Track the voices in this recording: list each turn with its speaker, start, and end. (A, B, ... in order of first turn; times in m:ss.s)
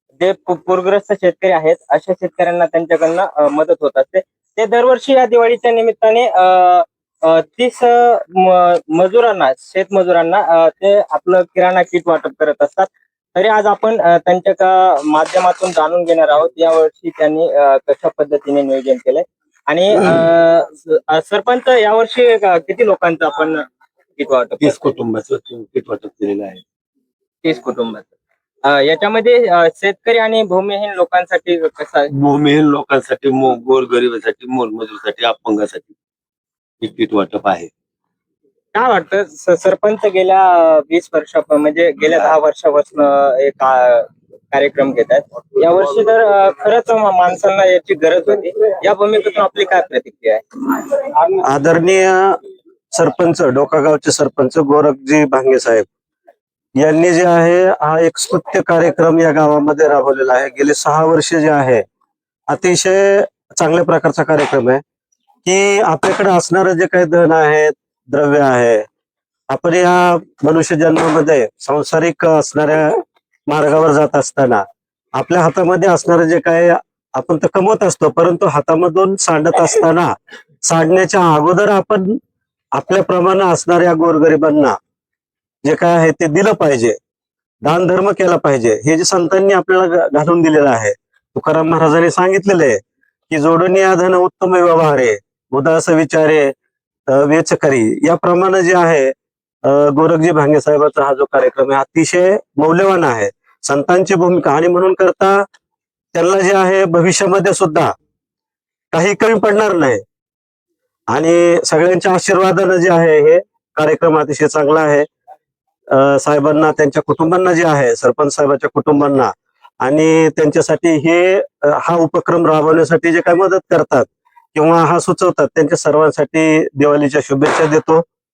0:00.2-0:23.6 A
0:24.2-0:25.0 A
0:24.6-0:26.6 B
0:27.4-0:28.1 A
0:28.7-0:32.1 A
0:32.1-0:35.9 B
0:36.8-0:37.7 B
0:38.7-0:50.4 A
0:51.4-0:52.3 C
0:52.9-0:55.9 C
0:56.8-1:01.8 C
1:02.5-1:04.8 C
1:05.4-1:08.9 C
1:09.5-1:14.6 C
1:15.2-1:20.1 C
1:20.6-1:22.1 C
1:22.8-1:24.8 C
1:25.6-1:27.0 C
1:27.6-1:32.8 C
1:33.3-1:36.5 C
1:37.1-1:39.1 C
1:39.6-1:45.4 C
1:46.1-1:47.9 C
1:48.9-1:50.0 C
1:51.1-1:55.1 C
1:55.9-2:08.0 C